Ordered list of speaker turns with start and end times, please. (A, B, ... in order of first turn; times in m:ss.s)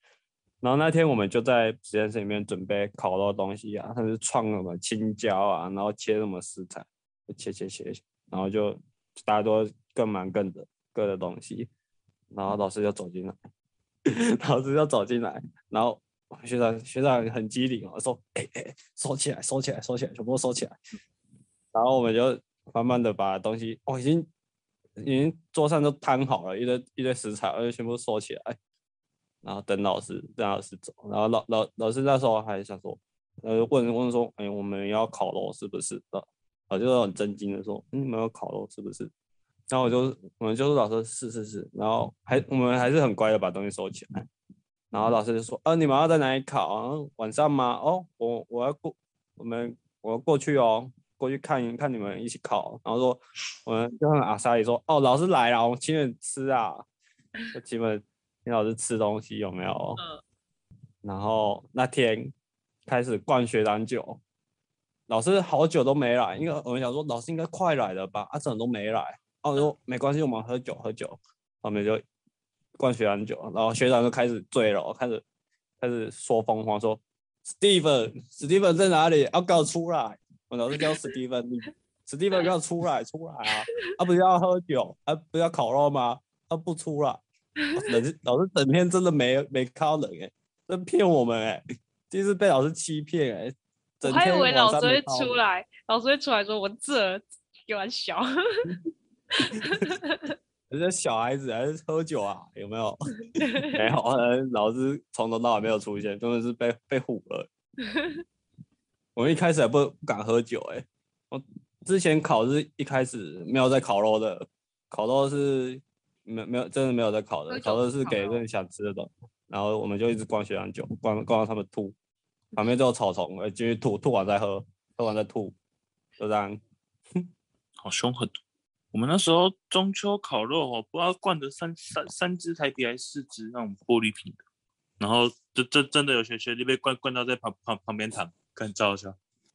0:00.6-0:11.7 A
0:12.3-0:13.4 A
0:14.1-0:20.7 A
0:21.7-0:24.3 A
0:25.0-0:28.5 A
0:29.4-0:39.1 A
0:39.7-0:44.3 A
0:44.9-0:56.8 A
0:57.5-1:00.0 A
1:00.0-1:00.2 B
1:01.0-1:02.3 A
1:02.9-1:04.2 A
1:05.1-1:12.0 A
1:12.8-1:15.2 A
1:15.8-1:27.2 A
1:27.7-1:35.3 A
1:34.0-1:38.3 B
1:39.4-1:39.8 A
1:39.4-1:40.3 B
1:40.7-1:47.5 A
1:43.4-1:43.7 B
1:47.8-1:48.2 B
1:49.2-2:01.9 A
1:57.5-1:58.4 B
2:02.6-2:05.5 A
2:06.2-2:06.6 A
2:07.8-2:08.3 C
2:08.9-2:14.4 C
2:15.0-2:19.2 C